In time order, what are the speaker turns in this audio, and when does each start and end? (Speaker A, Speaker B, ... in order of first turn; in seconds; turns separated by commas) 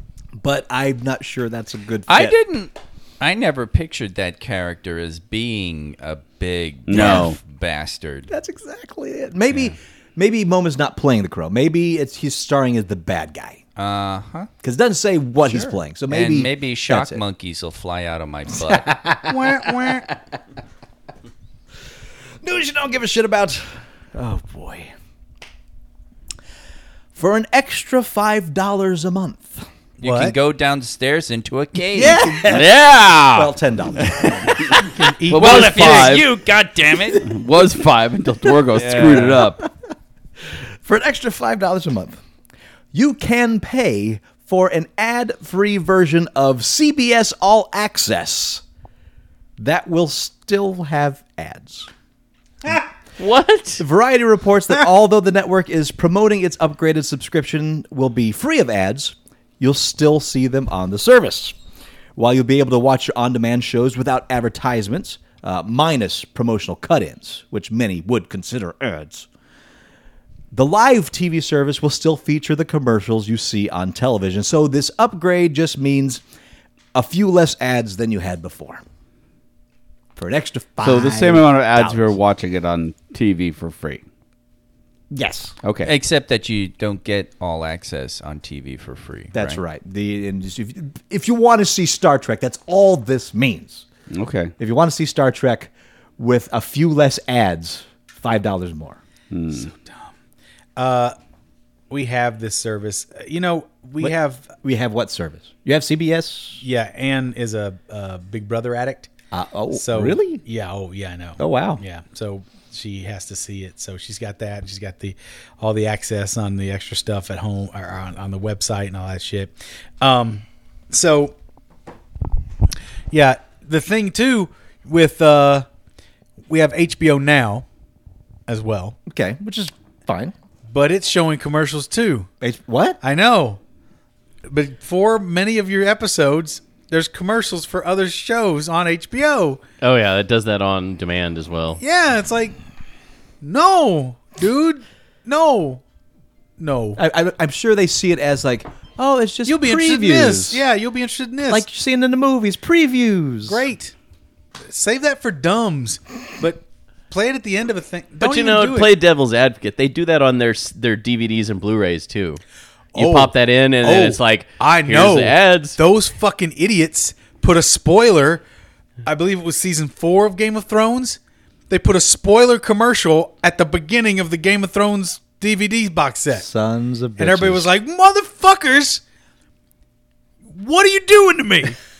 Speaker A: 0.4-2.4, Speaker B: 2.1-8.3, Speaker C: 6.9-7.4, Speaker A: 7.0-7.3, Speaker A: 8.3-13.6, Speaker B: 13.8-14.5, Speaker A: 14.6-17.2, Speaker B: 16.1-18.9, Speaker A: 18.6-20.2, Speaker D: 19.3-20.1, Speaker A: 22.4-24.9, Speaker A: 27.1-29.7, Speaker B: 30.0-32.5, Speaker D: 30.0-30.4, Speaker A: 31.9-32.7, Speaker C: 32.5-33.5, Speaker A: 33.3-34.8, Speaker D: 34.8-36.2, Speaker A: 35.3-36.1, Speaker C: 35.3-36.2, Speaker B: 35.3-37.3, Speaker C: 37.2-39.6, Speaker B: 38.7-39.5, Speaker A: 39.0-39.7, Speaker A: 40.8-42.2, Speaker A: 42.9-48.6, Speaker A: 49.6-51.9, Speaker E: 53.2-53.8, Speaker A: 53.8-61.5, Speaker A: 62.2-69.3, Speaker A: 70.5-76.2, Speaker A: 76.9-78.8, Speaker A: 80.2-82.2, Speaker C: 80.8-84.0, Speaker A: 85.1-85.6, Speaker C: 85.6-85.9, Speaker B: 85.8-89.6, Speaker A: 89.3-93.9, Speaker C: 94.1-94.5, Speaker A: 94.6-99.0, Speaker C: 99.3-99.7, Speaker D: 99.7-100.1, Speaker D: 100.8-101.2, Speaker D: 101.9-104.5, Speaker A: 104.0-106.6, Speaker D: 106.6-109.1, Speaker A: 109.3-110.4, Speaker D: 109.7-121.3, Speaker A: 111.4-111.8, Speaker D: 123.1-125.7, Speaker D: 126.5-127.7, Speaker D: 128.5-129.0, Speaker A: 129.1-130.3, Speaker D: 130.7-132.3, Speaker A: 132.4-133.0, Speaker D: 133.0-133.6, Speaker D: 134.5-139.6, Speaker E: 139.8-141.8, Speaker D: 141.8-142.6, Speaker D: 143.4-145.8, Speaker D: 146.6-147.0, Speaker A: 147.0-150.6, Speaker D: 149.5-151.7, Speaker A: 151.5-153.6, Speaker D: 153.5-153.9, Speaker D: 154.7-158.9, Speaker E: 158.2-162.4, Speaker D: 162.9-168.4, Speaker E: 162.9-165.8, Speaker D: 169.1-171.2, Speaker D: 171.7-176.4, Speaker A: 176.3-177.7, Speaker D: 177.2-179.0, Speaker D: 180.5-181.8